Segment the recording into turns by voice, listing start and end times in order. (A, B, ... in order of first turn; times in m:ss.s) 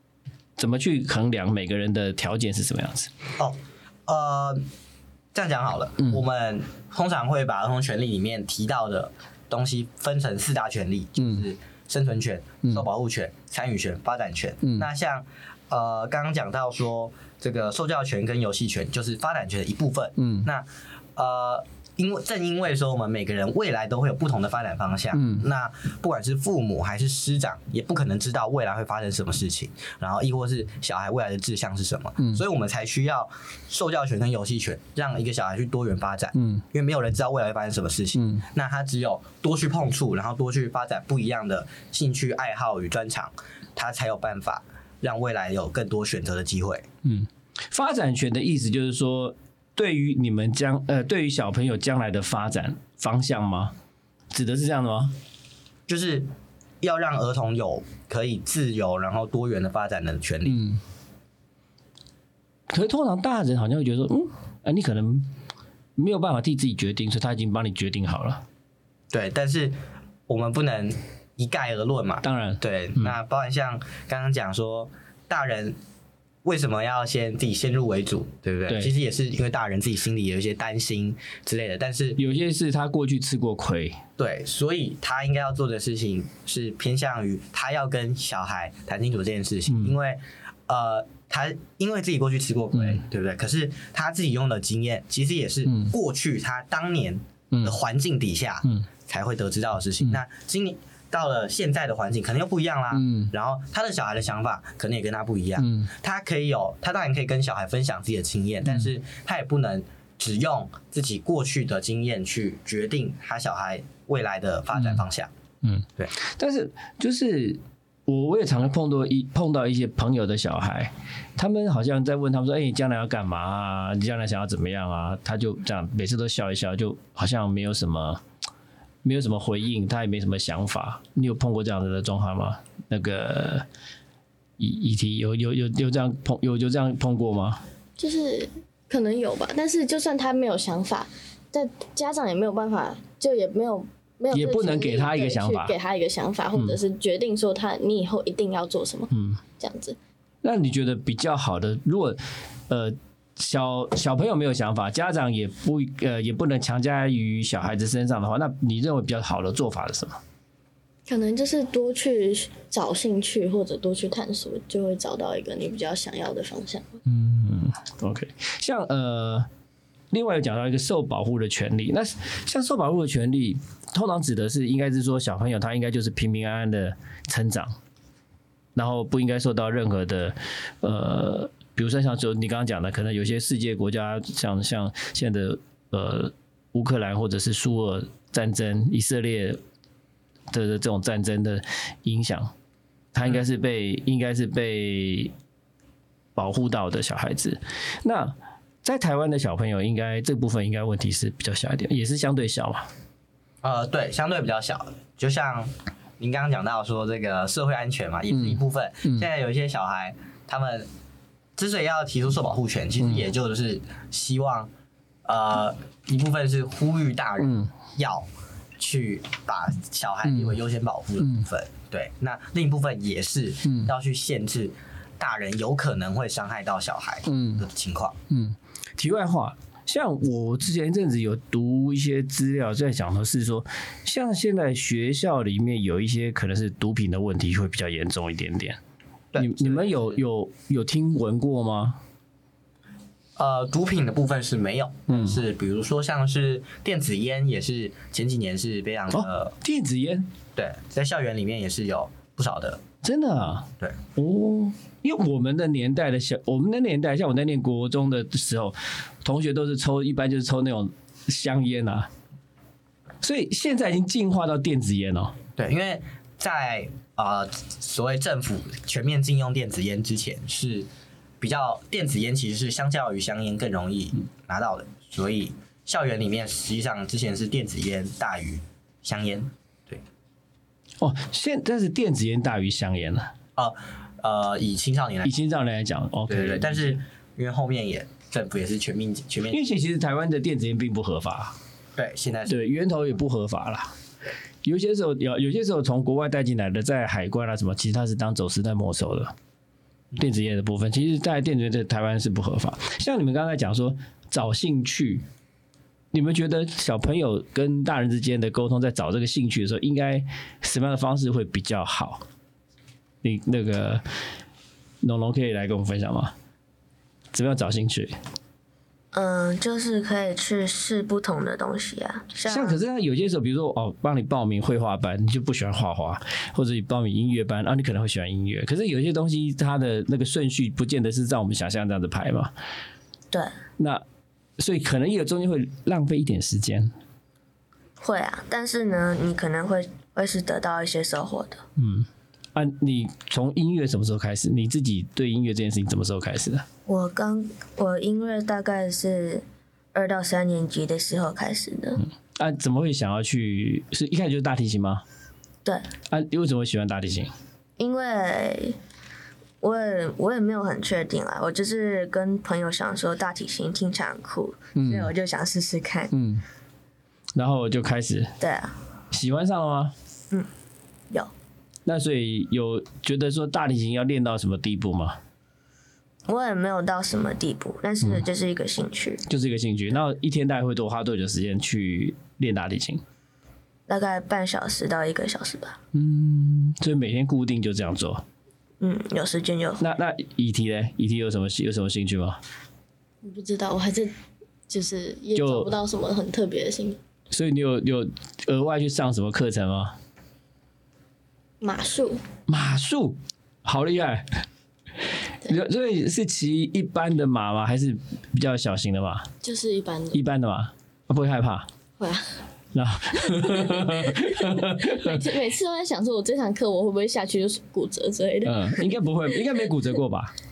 0:00.6-0:03.1 A
0:03.4-0:04.6 B
0:05.3-0:46.8 B
0:11.2-0:11.4 A
0:14.6-0:14.9 A
0:20.2-0:20.5 A
0:25.1-0:25.4 A
0:36.3-0:36.6 A
0:38.1-0:38.4 A
0:47.0-0:53.7 A
0:54.3-0:55.1 A
0:55.9-0:56.3 B
0:56.8-1:00.6 B
1:00.4-1:00.8 A
1:02.7-1:05.3 A
1:06.0-1:08.4 A
1:09.1-1:09.8 B
1:10.3-1:15.8 B
1:12.2-1:13.1 A
1:16.4-1:22.2 B
1:22.2-1:24.0 A
1:24.2-1:55.3 B
1:32.7-1:33.0 A
1:35.7-1:35.9 A
1:42.9-1:43.3 A
1:45.6-1:45.9 A
1:55.6-2:08.2 A
2:09.0-2:13.6 A
2:14.6-2:17.6 A
2:18.0-2:30.0 C
2:24.3-2:25.7 A
2:29.1-2:29.4 A
2:30.4-2:40.2 A
2:41.1-2:47.0 C
2:47.0-2:49.5 A
2:50.1-2:57.8 A
2:58.8-3:09.6 A
3:10.5-3:12.5 A
3:13.1-3:15.3 A
3:16.4-3:22.9 A
3:23.6-3:30.9 B
3:28.3-3:29.2 A
3:31.6-3:34.7 B
3:35.2-3:48.2 B
3:37.4-3:37.7 A
3:40.2-3:40.6 A
3:41.2-3:41.5 A
3:43.6-3:43.9 A
3:47.2-3:47.6 A
3:48.3-3:58.8 A
3:59.3-4:00.2 B
3:59.4-4:02.0 A
4:03.4-4:09.5 B
4:05.1-4:05.4 A
4:09.1-4:10.3 A
4:10.5-4:12.8 B
4:13.0-4:22.1 A
4:23.2-4:25.4 A
4:25.6-4:30.9 B
4:31.4-4:40.0 B
4:41.0-4:43.3 A
4:43.6-4:45.3 B
4:45.2-4:47.0 A
4:46.3-4:49.6 B
4:49.5-4:51.5 A
4:52.0-4:52.6 B
4:52.5-4:53.9 A
4:54.6-4:59.3 A
5:00.2-5:05.2 A
5:06.1-5:12.2 A
5:13.2-5:14.0 A
5:15.0-5:16.3 A
5:17.3-5:18.2 A
5:19.1-5:22.8 D
5:22.5-5:32.5 A
5:33.8-5:34.0 A
5:34.6-5:36.9 A
5:38.0-5:41.6 D
5:41.8-5:46.6 A
5:46.8-5:52.0 D
5:52.3-5:55.0 A
5:56.1-5:57.3 A
5:57.8-5:58.8 D
5:59.6-6:06.1 D
6:04.7-6:05.1 A
6:06.1-6:06.4 A
6:07.3-6:08.3 A
6:08.4-6:08.8 D
6:09.1-6:09.9 A
6:11.8-6:15.2 A
6:16.3-6:19.2 D
6:19.3-6:23.0 A
6:23.9-6:25.8 D
6:25.9-6:28.2 A
6:28.8-6:29.8 D
6:29.8-6:32.4 A
6:33.2-6:34.1 C
6:34.7-6:37.0 C
6:35.4-6:35.7 A
6:37.3-6:40.0 A
6:41.6-6:42.2 C
6:42.5-6:44.4 A
6:45.4-6:49.3 A
6:49.4-6:50.2 C
6:50.1-6:51.7 A
6:52.0-6:52.4 C
6:52.7-6:55.2 A
6:53.3-6:59.0 C
6:58.4-7:00.3 A